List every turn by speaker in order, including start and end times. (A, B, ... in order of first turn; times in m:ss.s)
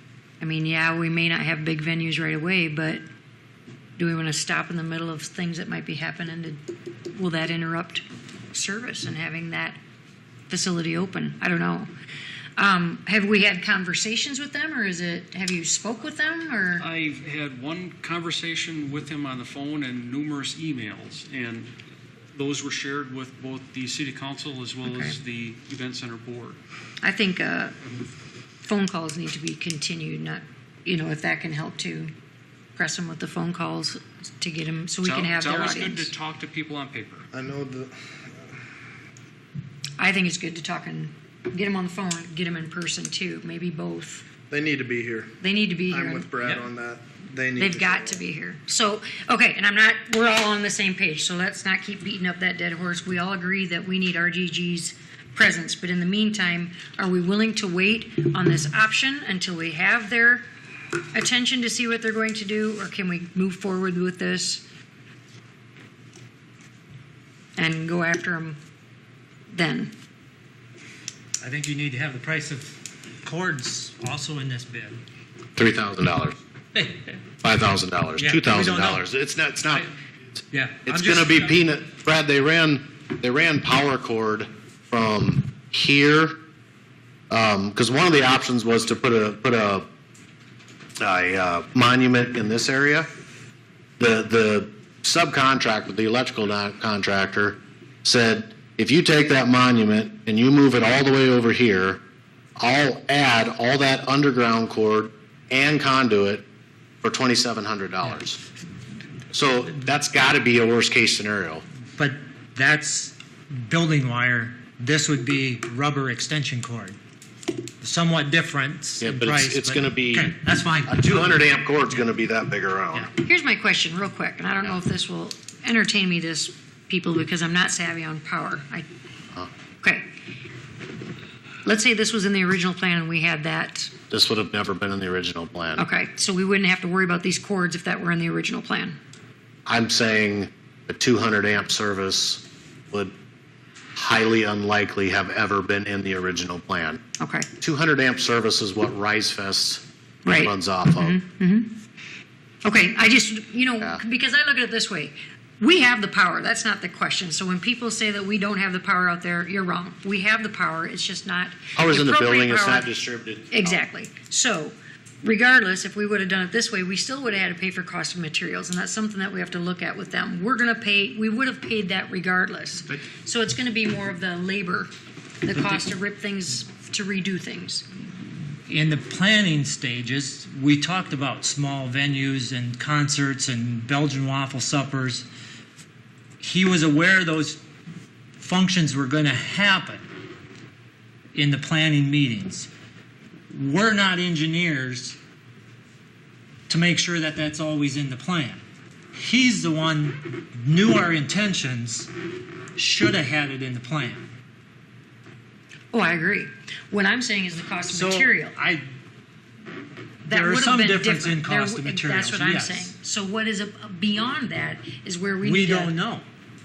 0:00.4-0:03.0 A
0:04.0-0:06.6 A
0:07.1-0:09.8 A
0:10.5-0:11.9 A
0:12.6-0:16.9 A
0:16.8-0:21.7 B
0:22.4-0:26.6 B
0:24.8-0:25.1 A
0:27.0-0:27.8 A
0:28.7-0:32.1 A
0:32.8-0:36.1 A
0:35.0-0:37.3 B
0:37.3-0:38.0 C
0:40.0-0:44.3 A
0:44.5-0:45.4 C
0:45.4-0:46.3 A
0:45.9-0:48.2 C
0:47.6-1:00.4 A
1:01.1-1:04.6 A
1:07.6-1:08.6 A
1:09.5-1:09.9 A
1:11.4-1:15.0 D
1:15.6-1:16.4 E
1:16.7-1:17.1 D
1:17.4-1:19.9 E
1:18.2-1:19.0 D
1:20.5-1:21.6 D
1:20.8-1:26.4 E
1:27.3-1:29.9 E
1:31.0-1:33.1 E
1:34.0-1:42.0 E
1:42.6-1:46.4 E
1:47.0-1:48.4 E
1:49.3-1:51.6 E
1:52.0-1:57.0 D
1:57.8-2:01.4 D
1:59.0-2:03.1 E
2:03.2-2:08.9 A
2:11.6-2:13.9 A
2:14.1-2:15.8 E
2:15.8-2:19.0 A
2:19.7-2:23.1 E
2:24.0-2:27.0 E
2:27.2-2:27.5 A
2:27.6-2:31.2 E
2:30.2-2:31.7 A
2:32.6-2:42.9 A
2:41.8-2:43.8 E
2:43.5-2:54.9 A
2:55.4-2:57.9 A
2:58.7-3:05.3 D
3:06.4-3:07.6 D
3:08.4-3:10.0 D
3:11.3-3:12.7 D
3:13.5-3:15.2 D
3:16.7-3:18.6 D
3:19.2-3:22.1 D
3:22.8-3:24.3 D
3:25.9-3:28.6 A
3:27.9-3:28.8 D
3:30.2-3:35.9 A
3:30.3-3:32.9 D
3:35.4-3:36.3 D